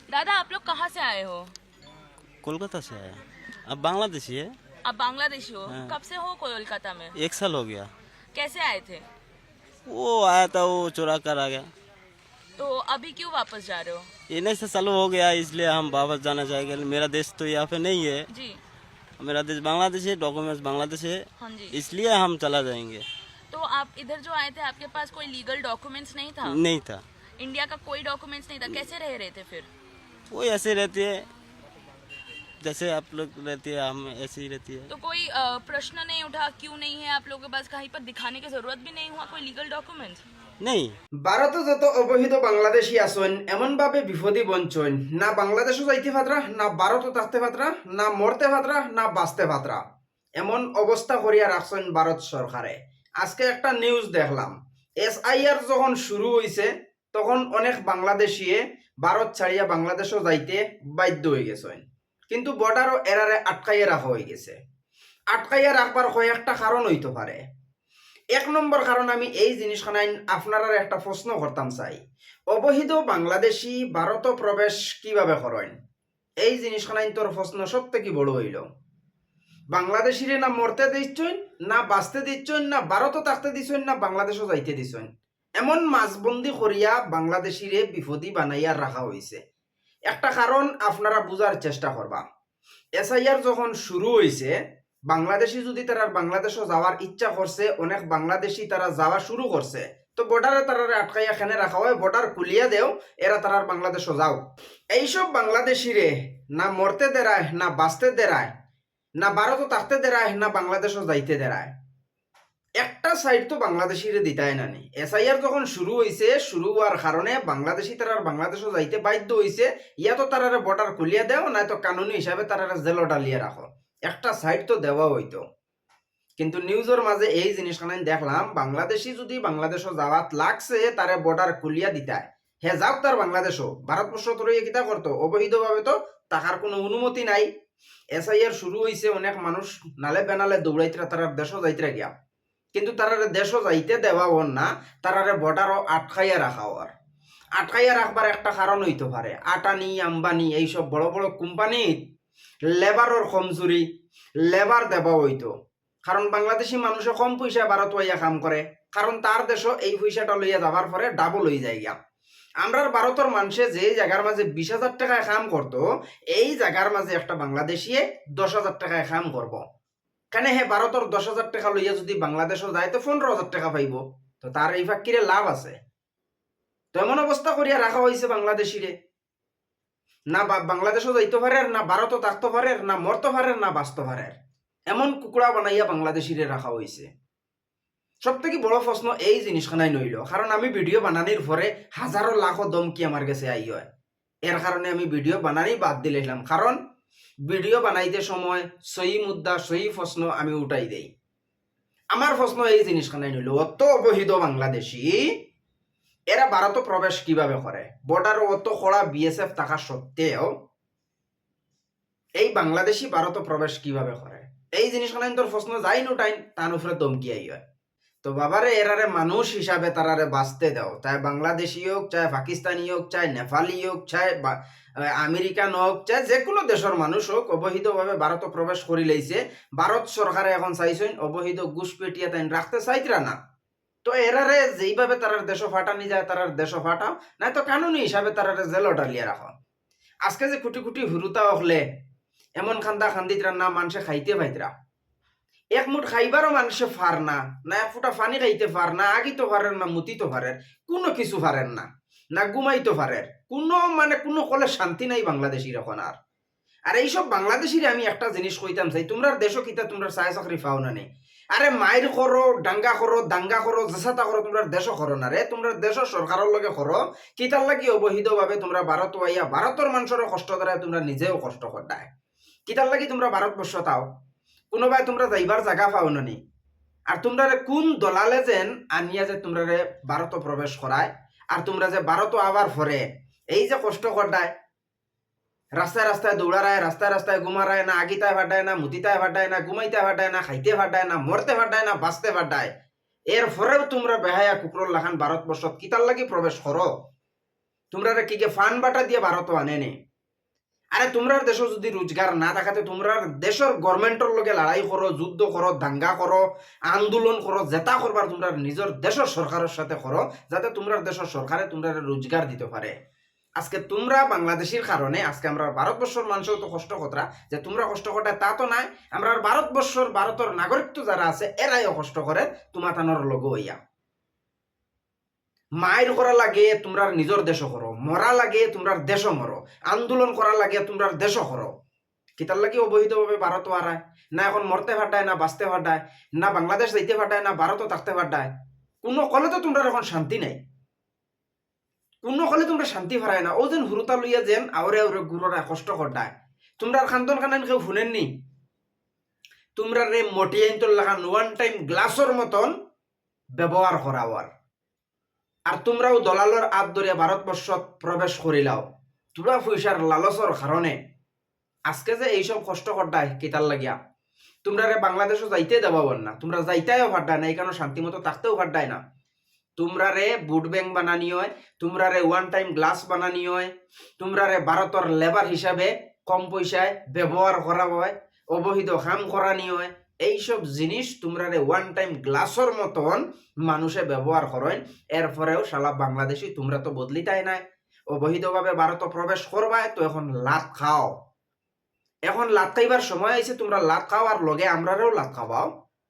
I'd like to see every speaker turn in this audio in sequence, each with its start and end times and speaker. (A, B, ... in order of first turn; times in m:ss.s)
0:00.1-0:01.5 A
0:02.4-0:04.5 B
0:04.8-0:07.1 A
0:05.7-0:05.9 B
0:07.2-0:07.9 B
0:08.3-0:09.1 A
0:09.9-0:11.7 B
0:12.6-0:14.1 A
0:14.3-0:18.2 B
0:18.3-0:18.6 A
0:19.2-0:23.0 B
0:21.4-0:21.8 A
0:23.5-0:26.6 A
0:26.4-0:27.0 B
0:27.4-0:29.7 A
0:30.3-0:31.3 B
0:32.6-0:34.9 B
0:34.9-0:40.2 A
0:40.6-0:40.9 B
0:41.2-0:49.8 C
0:50.4-1:04.6 C
1:05.3-1:07.4 C
1:08.3-1:12.0 C
1:12.5-1:15.7 C
1:16.4-1:18.6 C
1:19.7-1:29.4 C
1:30.1-1:32.2 C
1:33.0-1:34.5 C
1:35.1-1:44.4 C
1:44.9-1:48.5 C
1:49.2-1:51.7 C
1:52.8-2:05.4 C
2:06.4-2:17.5 C
2:18.1-2:22.1 C
2:22.7-2:26.9 C
2:27.6-2:32.0 C
2:32.7-2:33.8 C
2:34.5-2:35.5 C
2:36.0-2:41.9 C
2:42.6-2:45.8 C
2:46.3-2:49.6 C
2:50.3-2:55.7 C
2:56.9-2:58.9 C
3:00.3-3:04.3 C
3:04.9-3:07.1 C
3:08.2-3:13.8 C
3:14.4-3:16.8 C
3:17.5-3:21.1 C
3:22.1-3:25.3 C
3:26.3-3:30.5 C
3:32.4-3:37.6 C
3:38.2-3:53.3 C
3:54.0-3:59.5 C
4:00.2-4:01.8 C
4:02.6-4:04.7 C
4:05.7-4:16.1 C
4:16.9-4:32.1 C
4:32.7-4:34.0 C
4:34.7-4:36.4 C
4:37.1-4:44.5 C
4:45.8-4:52.7 C
4:53.3-4:56.9 C
4:57.9-4:59.9 C
5:00.9-5:12.9 C
5:13.6-5:23.8 C
5:25.8-5:31.7 C
5:32.4-5:38.5 C
5:39.0-5:40.6 C
5:42.2-5:48.3 C
5:49.8-5:52.7 C
5:53.6-5:54.5 C
5:55.7-5:58.8 C
5:59.3-6:01.0 C
6:01.9-6:03.9 C
6:04.6-6:09.0 C
6:09.8-6:31.1 C
6:32.3-6:35.7 C